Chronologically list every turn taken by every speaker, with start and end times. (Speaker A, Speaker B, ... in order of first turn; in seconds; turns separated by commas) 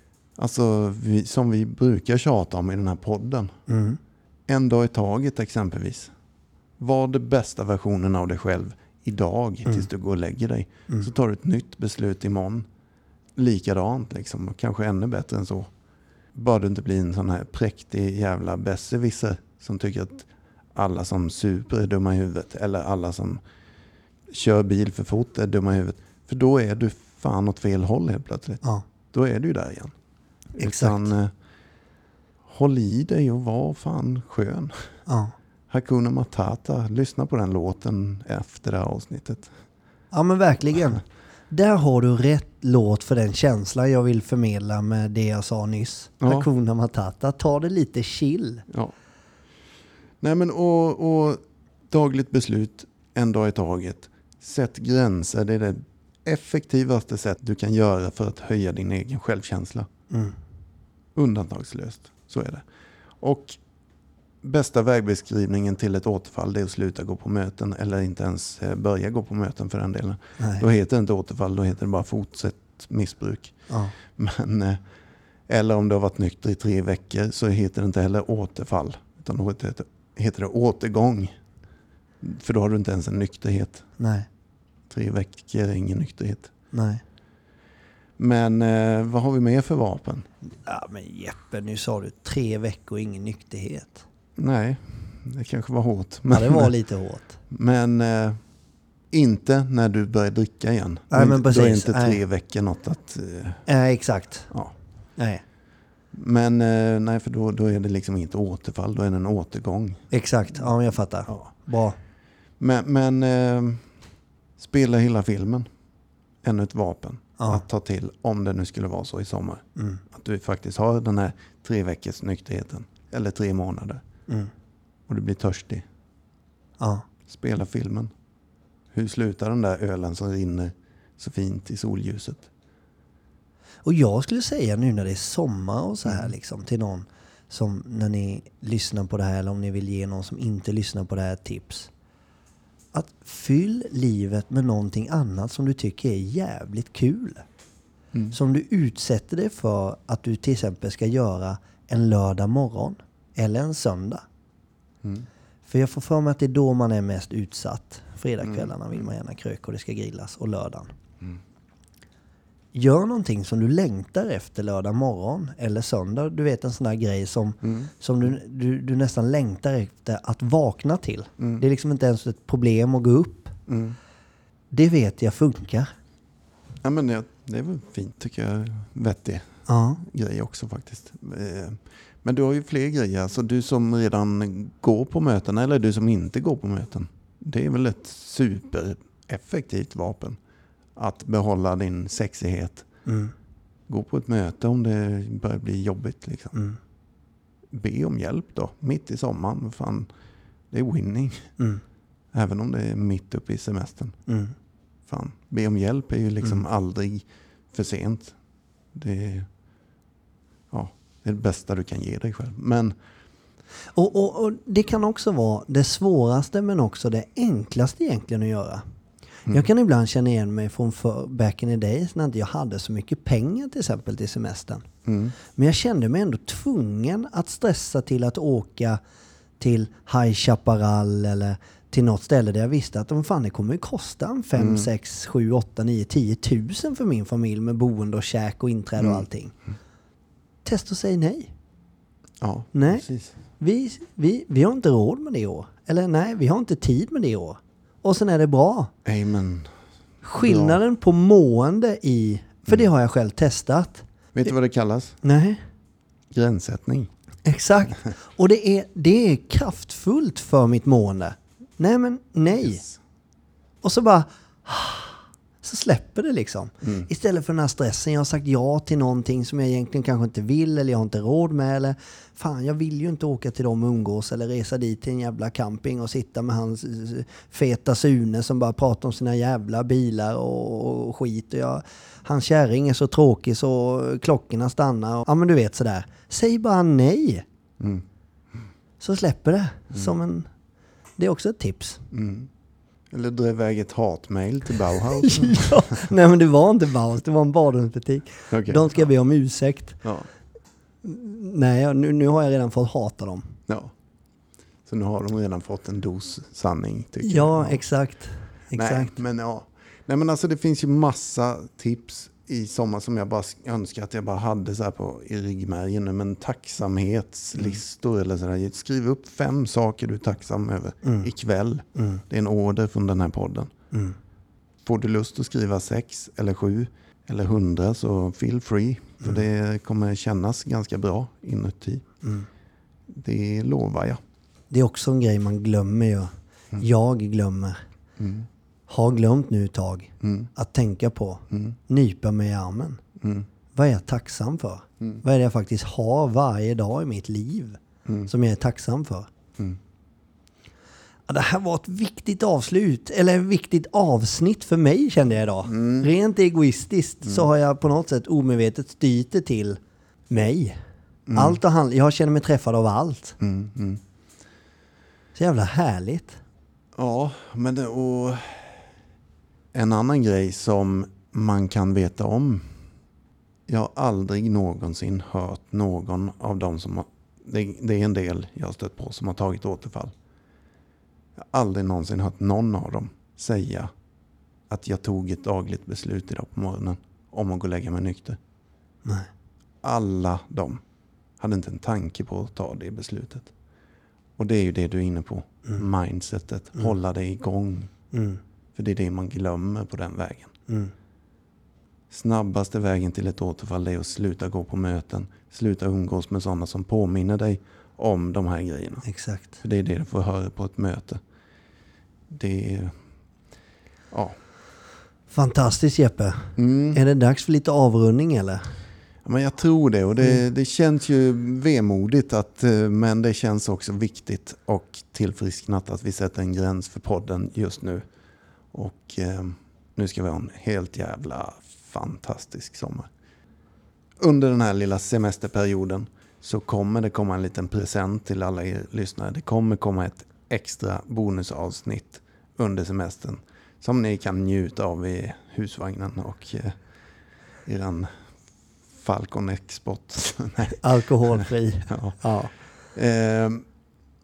Speaker A: 0.3-3.5, Speaker B: 3.7-4.0, Speaker A: 4.5-6.1, Speaker A: 6.8-12.7, Speaker A: 13.3-15.7, Speaker A: 16.3-23.4, Speaker A: 24.3-29.9, Speaker A: 30.5-31.3, Speaker B: 30.6-31.1, Speaker A: 32.5-34.8, Speaker B: 35.1-35.3, Speaker A: 35.7-39.5, Speaker B: 40.1-48.6, Speaker A: 46.2-46.5, Speaker A: 48.7-48.9, Speaker A: 50.2-59.9, Speaker A: 61.1-62.6, Speaker A: 63.2-63.6, Speaker A: 64.4-73.5, Speaker B: 70.4-70.6, Speaker B: 73.7-73.9, Speaker A: 74.1-74.8, Speaker A: 75.5-81.4, Speaker A: 82.2-83.8, Speaker B: 84.0-84.3, Speaker A: 84.9-86.5, Speaker B: 86.7-87.0, Speaker A: 88.2-90.3, Speaker B: 90.6-94.0, Speaker A: 94.4-96.7, Speaker B: 96.3-97.4, Speaker A: 97.5-98.4, Speaker A: 99.1-103.6, Speaker B: 101.1-102.2, Speaker B: 103.7-104.5, Speaker B: 105.2-105.4, Speaker A: 106.1-110.1, Speaker B: 110.1-112.0, Speaker A: 112.6-113.8, Speaker A: 114.6-115.7, Speaker A: 116.4-124.0, Speaker A: 125.1-125.8, Speaker B: 126.8-127.0, Speaker A: 127.3-128.1, Speaker A: 128.9-132.5, Speaker B: 133.8-141.9, Speaker B: 142.9-147.4, Speaker B: 148.3-154.2, Speaker B: 155.6-160.9, Speaker A: 158.4-158.7, Speaker B: 162.7-173.6, Speaker A: 167.6-167.9, Speaker A: 173.7-174.0, Speaker B: 174.7-175.9, Speaker A: 176.8-179.5, Speaker B: 179.7-180.0, Speaker A: 180.0-190.4, Speaker A: 190.9-192.8, Speaker B: 193.1-193.3, Speaker A: 193.9-196.5, Speaker A: 197.7-200.1, Speaker A: 200.7-201.5, Speaker A: 202.3-204.2, Speaker B: 204.3-204.5, Speaker A: 205.1-208.3, Speaker A: 208.9-209.5, Speaker A: 210.7-212.9, Speaker B: 213.9-218.8, Speaker B: 219.5-224.8, Speaker A: 225.1-225.3, Speaker B: 225.5-229.0, Speaker B: 229.6-239.5, Speaker A: 234.6-234.9, Speaker A: 239.0-239.2, Speaker B: 240.6-241.5, Speaker A: 242.4-243.3, Speaker B: 242.7-243.1, Speaker B: 243.6-248.9, Speaker A: 249.0-249.7, Speaker B: 250.2-254.0, Speaker A: 250.4-250.8, Speaker A: 254.3-255.2, Speaker B: 255.2-255.6, Speaker A: 256.3-257.1, Speaker B: 257.4-262.8, Speaker A: 262.6-263.0, Speaker B: 263.8-287.4, Speaker A: 266.8-267.1, Speaker A: 287.8-288.0, Speaker B: 289.0-290.5, Speaker B: 291.2-292.0, Speaker A: 292.1-292.5, Speaker A: 293.1-296.0, Speaker B: 295.1-300.0, Speaker A: 298.5-299.0, Speaker A: 300.0-300.3, Speaker B: 301.0-303.6, Speaker A: 304.9-307.8, Speaker B: 307.2-309.2, Speaker A: 308.7-323.7, Speaker B: 321.0-321.3, Speaker B: 321.9-322.2, Speaker A: 324.8-332.0, Speaker A: 333.1-334.2, Speaker B: 334.7-337.8, Speaker A: 338.2-338.5, Speaker B: 338.9-343.0, Speaker A: 340.2-340.5, Speaker A: 341.5-341.8, Speaker A: 343.2-343.5, Speaker B: 343.7-349.3, Speaker A: 348.0-348.3, Speaker B: 351.3-360.8, Speaker A: 355.7-356.1, Speaker A: 361.3-361.6, Speaker B: 361.3-363.4, Speaker A: 363.4-364.0, Speaker B: 365.3-366.4, Speaker A: 366.9-368.8, Speaker A: 369.7-372.7, Speaker A: 373.7-380.1, Speaker A: 381.4-383.9, Speaker A: 384.7-388.4, Speaker A: 389.8-390.8, Speaker A: 391.4-393.5, Speaker A: 394.4-397.9, Speaker B: 398.1-398.4, Speaker A: 398.7-400.5, Speaker B: 400.7-400.9, Speaker A: 402.1-409.0, Speaker B: 409.0-409.6, Speaker A: 409.6-411.2, Speaker A: 412.3-412.9, Speaker A: 414.1-414.4, Speaker B: 415.3-418.7, Speaker A: 416.6-417.0, Speaker A: 419.2-428.0, Speaker A: 428.7-433.1, Speaker A: 434.2-446.8, Speaker A: 447.6-448.1, Speaker A: 449.0-452.2, Speaker B: 450.8-452.5, Speaker A: 452.9-453.6